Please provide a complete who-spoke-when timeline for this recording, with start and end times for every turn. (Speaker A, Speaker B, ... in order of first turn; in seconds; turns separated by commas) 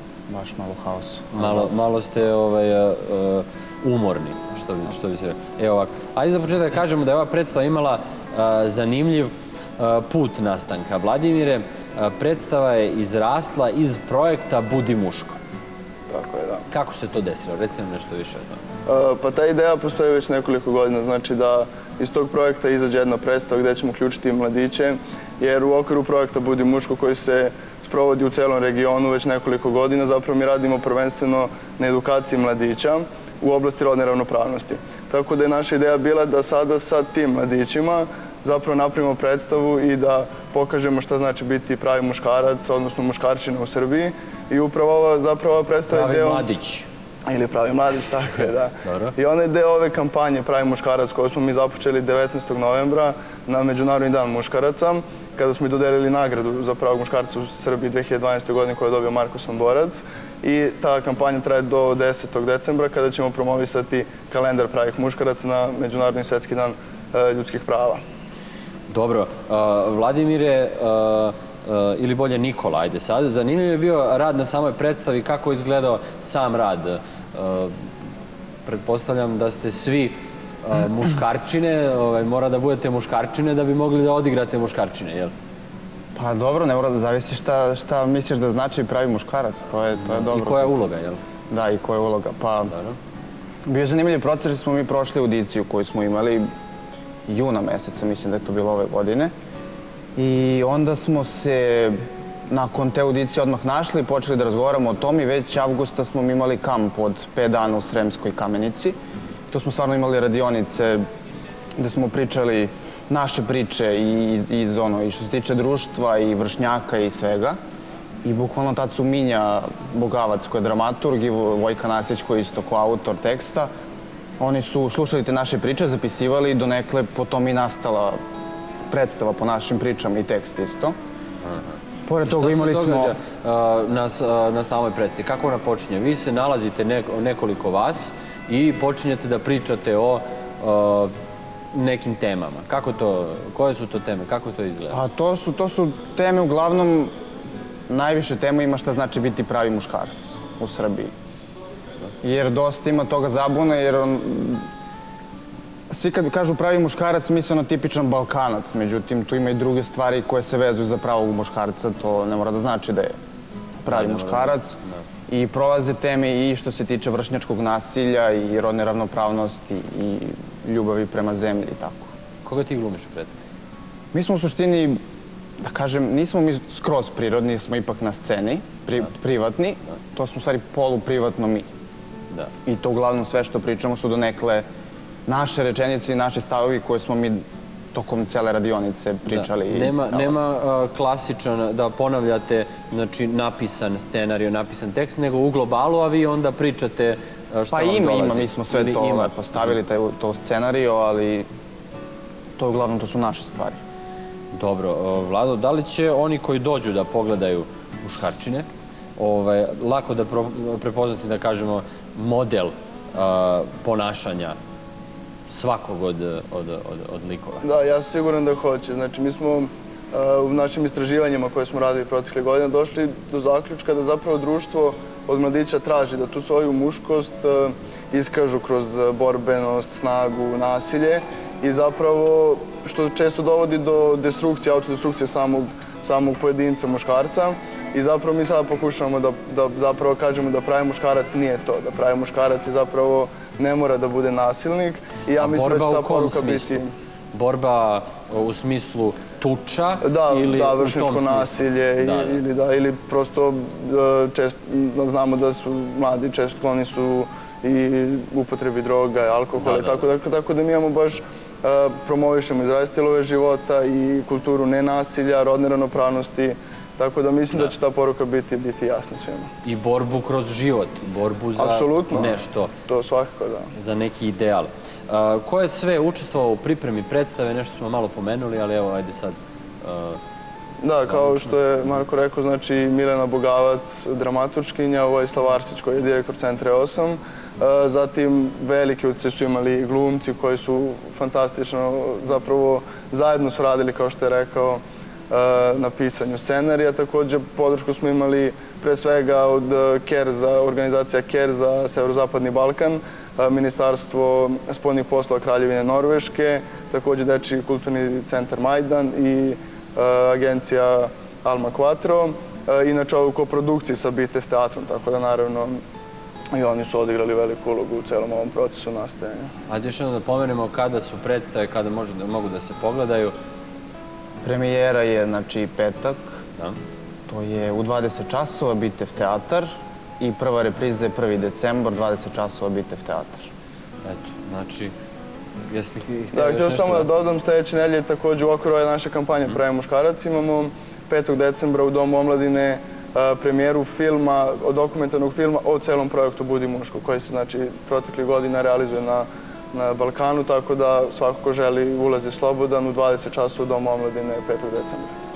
Speaker A: 0.3-1.7, Speaker B: 1.3-15.4, Speaker C: 16.1-16.7, Speaker B: 16.7-18.6, Speaker C: 18.9-46.5, Speaker B: 45.9-46.9, Speaker C: 47.3-68.0, Speaker B: 48.8-49.1, Speaker B: 68.9-77.8, Speaker B: 78.7-85.3, Speaker A: 86.2-90.8, Speaker B: 90.0-91.2, Speaker A: 91.5-92.7, Speaker B: 92.7-93.0, Speaker A: 93.7-96.5, Speaker A: 97.3-99.3, Speaker A: 100.2-109.0, Speaker A: 109.5-111.0, Speaker A: 111.8-117.6, Speaker A: 118.2-123.7, Speaker A: 124.4-128.2, Speaker A: 128.9-130.9, Speaker B: 131.4-141.1, Speaker A: 132.1-133.2, Speaker B: 141.7-145.0, Speaker A: 144.9-147.1, Speaker A: 147.9-151.1, Speaker A: 152.2-154.7, Speaker A: 155.9-163.2, Speaker A: 163.8-164.8, Speaker B: 163.9-165.1, Speaker A: 165.3-172.1, Speaker B: 172.4-173.3, Speaker A: 174.1-175.0, Speaker A: 175.6-181.7, Speaker A: 182.7-184.7, Speaker A: 185.3-190.4, Speaker B: 189.3-199.8, Speaker A: 197.7-201.5, Speaker A: 202.6-203.8, Speaker B: 204.5-208.7, Speaker B: 209.2-214.6, Speaker B: 215.5-217.7, Speaker C: 217.6-246.9, Speaker B: 245.4-246.8, Speaker B: 247.3-252.4, Speaker C: 250.0-269.5, Speaker B: 259.6-260.1, Speaker B: 269.6-272.7, Speaker C: 271.6-273.7, Speaker B: 273.8-280.2, Speaker C: 280.8-315.8, Speaker B: 281.1-281.4, Speaker C: 316.5-319.5, Speaker B: 319.7-323.4, Speaker A: 324.4-326.4, Speaker A: 327.3-333.5, Speaker B: 334.0-334.9, Speaker B: 335.7-337.1, Speaker C: 336.3-355.2